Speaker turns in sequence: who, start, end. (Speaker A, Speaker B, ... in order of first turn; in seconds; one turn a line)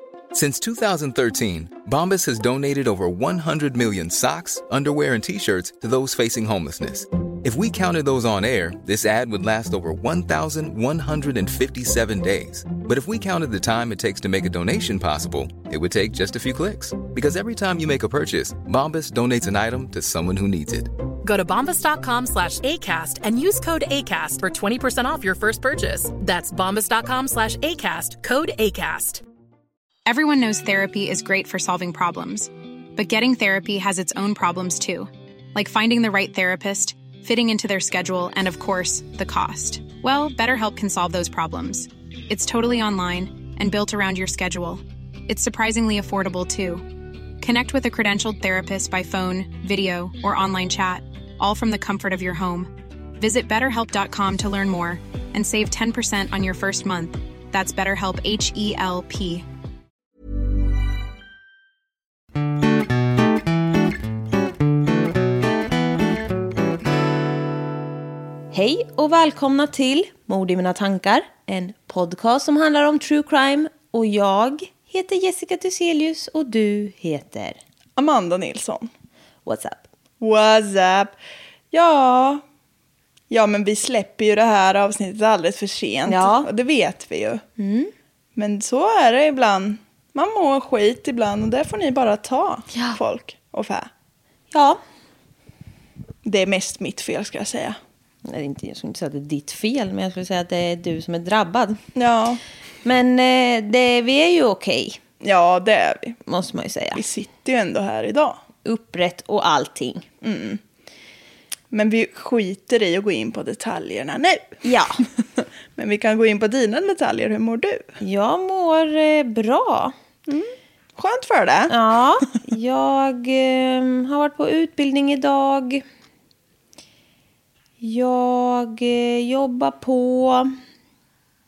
Speaker A: 0.3-20.9
Speaker B: 21.2-29.2
Speaker C: 30.1-46.8
Speaker C: 47.4-59.4
Speaker D: 68.5-77.6
Speaker E: 78.0-78.9
Speaker D: 79.4-79.8
Speaker E: 80.2-81.1
Speaker E: 81.7-82.4
Speaker E: 83.3-87.4
Speaker D: 86.0-86.5
Speaker D: 87.6-87.9
Speaker E: 88.3-93.9
Speaker D: 92.7-93.0
Speaker D: 94.5-94.8
Speaker E: 96.2-97.8
Speaker D: 98.2-101.8
Speaker E: 102.0-102.4
Speaker D: 102.8-105.0
Speaker E: 105.2-106.2
Speaker D: 106.2-107.0
Speaker E: 106.9-108.4
Speaker D: 108.6-110.1
Speaker E: 110.2-110.6
Speaker E: 111.7-114.5
Speaker D: 114.6-115.0
Speaker E: 115.8-117.9
Speaker D: 118.0-119.9
Speaker E: 120.3-121.8
Speaker D: 121.7-125.8
Speaker D: 127.8-130.6